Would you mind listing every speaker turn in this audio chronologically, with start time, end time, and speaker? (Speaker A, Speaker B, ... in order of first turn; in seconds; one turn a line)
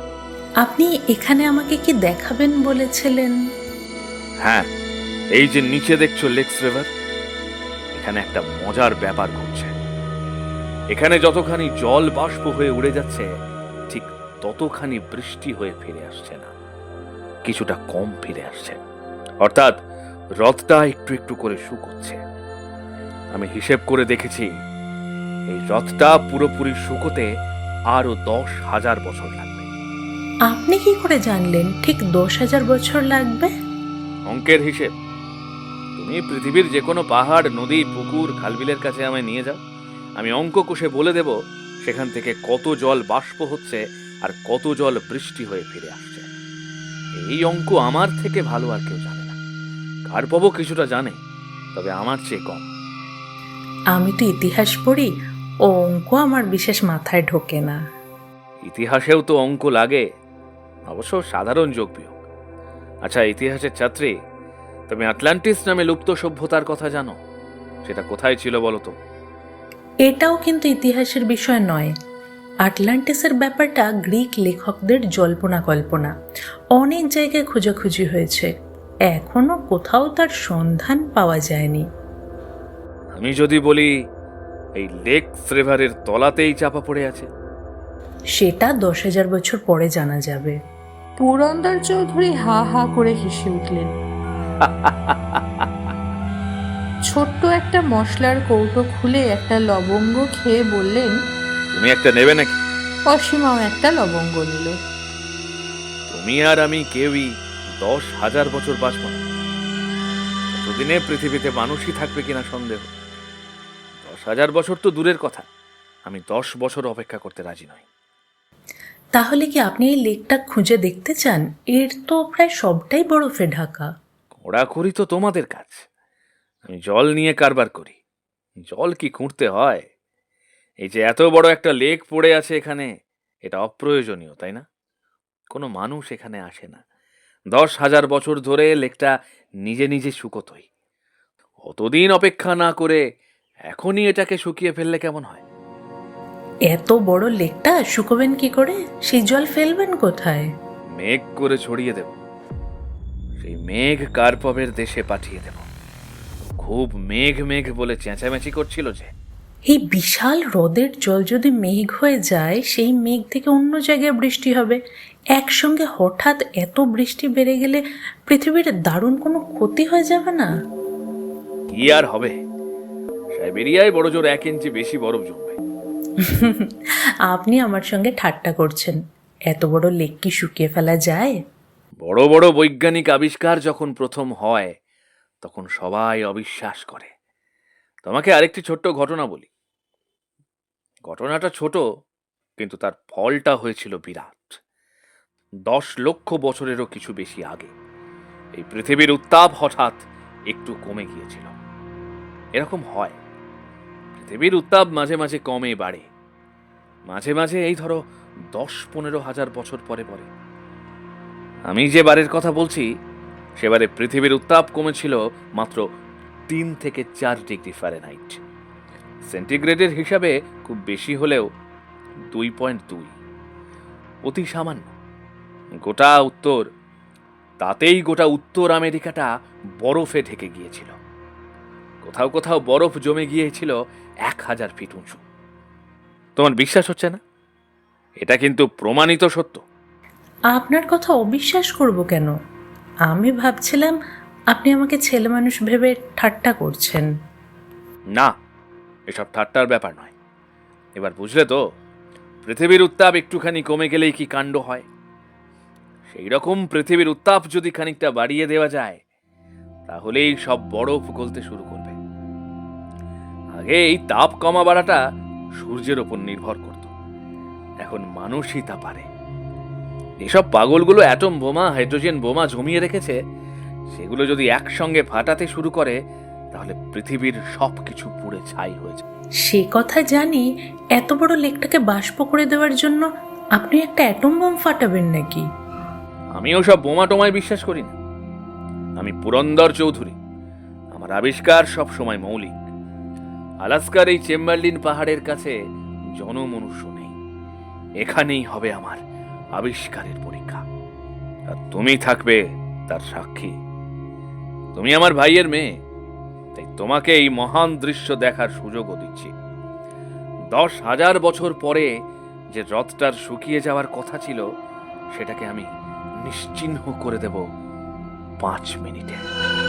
Speaker A: 0.6-3.4
Speaker B: 5.3-6.9
Speaker B: 7.9-9.7
Speaker B: 10.9-13.3
Speaker B: 13.9-16.5
Speaker B: 17.5-18.8
Speaker B: 19.4-19.8
Speaker B: 20.4-22.2
Speaker B: 23.3-24.5
Speaker B: 25.5-27.3
Speaker B: 27.9-29.7
Speaker A: 30.5-33.5
Speaker B: 34.3-34.9
Speaker B: 36.0-39.6
Speaker B: 40.2-46.3
Speaker B: 47.2-49.4
Speaker B: 50.1-51.2
Speaker B: 51.7-52.7
Speaker A: 54.0-55.1
Speaker A: 55.7-57.8
Speaker B: 58.6-60.0
Speaker B: 60.9-62.1
Speaker B: 63.0-64.1
Speaker B: 64.9-67.2
Speaker B: 67.8-68.9
Speaker A: 70.1-71.9
Speaker A: 72.6-76.1
Speaker A: 76.8-78.5
Speaker A: 79.1-81.9
Speaker B: 83.1-83.9
Speaker B: 84.8-87.3
Speaker A: 88.4-90.6
Speaker C: 91.2-93.9
Speaker B: 94.6-95.7
Speaker C: 97.1-101.2
Speaker B: 101.7-102.6
Speaker C: 103.1-104.8
Speaker B: 106.1-109.2
Speaker B: 110.5-112.9
Speaker B: 114.0-115.5
Speaker B: 116.1-117.8
Speaker A: 119.2-123.9
Speaker B: 124.4-125.8
Speaker B: 126.7-128.0
Speaker B: 128.7-129.9
Speaker B: 130.8-132.9
Speaker B: 133.4-134.7
Speaker B: 135.5-136.8
Speaker B: 137.5-139.1
Speaker B: 139.7-140.7
Speaker B: 141.6-143.0
Speaker B: 143.7-145.4
Speaker A: 146.7-150.5
Speaker B: 150.9-152.1
Speaker B: 153.4-155.7
Speaker B: 156.6-159.1
Speaker A: 159.7-164.8
Speaker A: 165.3-170.5
Speaker B: 171.7-172.4
Speaker B: 173.3-175.6
Speaker A: 176.2-181.4
Speaker B: 182.0-184.8
Speaker B: 185.4-187.1
Speaker B: 188.0-189.5
Speaker B: 191.1-191.8
Speaker B: 192.6-194.6
Speaker B: 195.7-197.7
Speaker B: 198.6-201.5
Speaker B: 202.6-203.2
Speaker B: 204.2-206.1
Speaker B: 207.1-208.0
Speaker B: 208.5-210.3
Speaker B: 211.7-212.9
Speaker B: 213.6-215.8
Speaker B: 216.5-218.4
Speaker B: 219.2-221.5
Speaker B: 222.3-223.2
Speaker B: 224.2-224.9
Speaker B: 225.8-226.7
Speaker B: 227.6-231.0
Speaker B: 232.0-233.8
Speaker B: 234.3-235.2
Speaker B: 236.4-237.2
Speaker B: 238.2-239.6
Speaker A: 240.5-242.3
Speaker A: 243.1-244.0
Speaker A: 244.5-247.1
Speaker B: 249.1-250.1
Speaker B: 251.0-251.6
Speaker B: 252.4-254.9
Speaker B: 256.1-259.0
Speaker B: 259.9-262.0
Speaker B: 263.6-265.0
Speaker B: 265.6-266.9
Speaker B: 267.8-269.1
Speaker B: 270.2-273.2
Speaker B: 273.9-276.0
Speaker B: 276.5-279.0
Speaker A: 279.4-285.5
Speaker B: 286.4-287.9
Speaker B: 289.0-290.2
Speaker B: 290.9-292.6
Speaker B: 293.6-295.6
Speaker B: 296.1-297.1
Speaker B: 298.0-299.0
Speaker B: 299.6-300.6
Speaker B: 301.5-303.6
Speaker B: 304.8-305.8
Speaker B: 306.6-309.3
Speaker B: 310.5-311.9
Speaker B: 312.5-314.5
Speaker B: 315.1-315.7
Speaker B: 316.2-317.4
Speaker B: 318.4-319.2